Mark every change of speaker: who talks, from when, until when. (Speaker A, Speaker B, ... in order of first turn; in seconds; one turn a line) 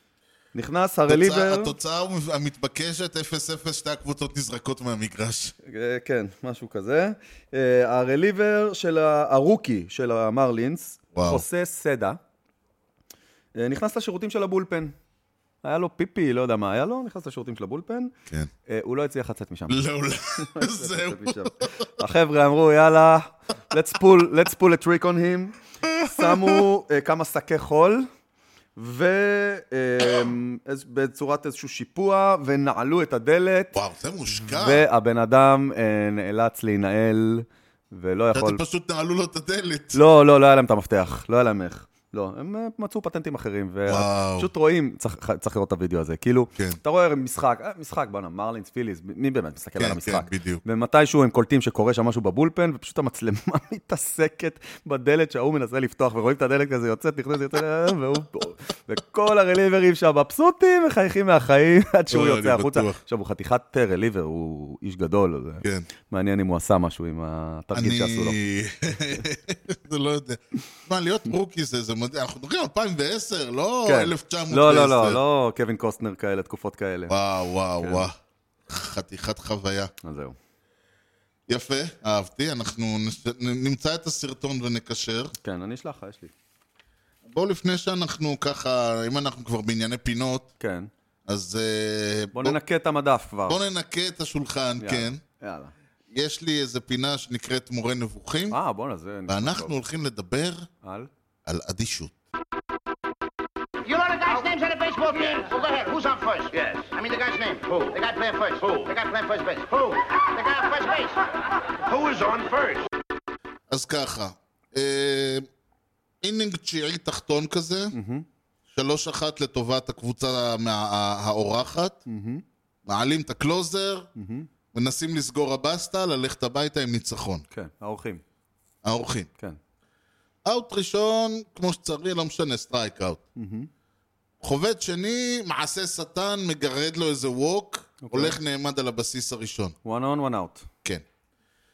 Speaker A: 0.5-1.7
Speaker B: 1.1-5.5
Speaker A: 5.6-12.2
Speaker B: 11.2-11.4
Speaker A: 13.6-14.9
Speaker A: 15.6-18.1
Speaker A: 18.7-19.8
Speaker B: 19.7-21.9
Speaker A: 20.4-28.1
Speaker B: 25.9-26.6
Speaker A: 28.8-33.8
Speaker B: 33.7-34.9
Speaker A: 34.4-38.6
Speaker B: 38.3-40.0
Speaker A: 39.9-68.4
Speaker B: 43.9-44.5
Speaker B: 49.8-50.6
Speaker B: 62.1-63.0
Speaker B: 67.7-75.2
Speaker A: 73.9-77.1
Speaker B: 77.1-78.2
Speaker A: 77.8-78.1
Speaker B: 78.7-79.9
Speaker A: 80.0-80.4
Speaker B: 81.5-85.3
Speaker A: 85.4-86.3
Speaker B: 87.3-90.5
Speaker A: 90.6-90.9
Speaker B: 91.3-92.6
Speaker A: 92.3-93.6
Speaker B: 93.5-95.2
Speaker A: 94.8-95.7
Speaker B: 96.1-98.6
Speaker A: 98.5-99.8
Speaker B: 99.3-100.7
Speaker A: 100.8-101.1
Speaker B: 101.5-102.1
Speaker C: 103.8-112.9
Speaker B: 113.7-115.5
Speaker B: 116.2-118.0
Speaker A: 117.9-118.3
Speaker B: 118.7-122.0
Speaker A: 122.1-122.4
Speaker B: 122.9-124.1
Speaker A: 124.2-124.5
Speaker B: 124.7-127.5
Speaker A: 127.5-128.2
Speaker B: 128.8-129.3
Speaker B: 130.5-133.2
Speaker A: 133.4-133.7
Speaker B: 134.4-139.8
Speaker A: 138.0-138.4
Speaker A: 139.8-140.7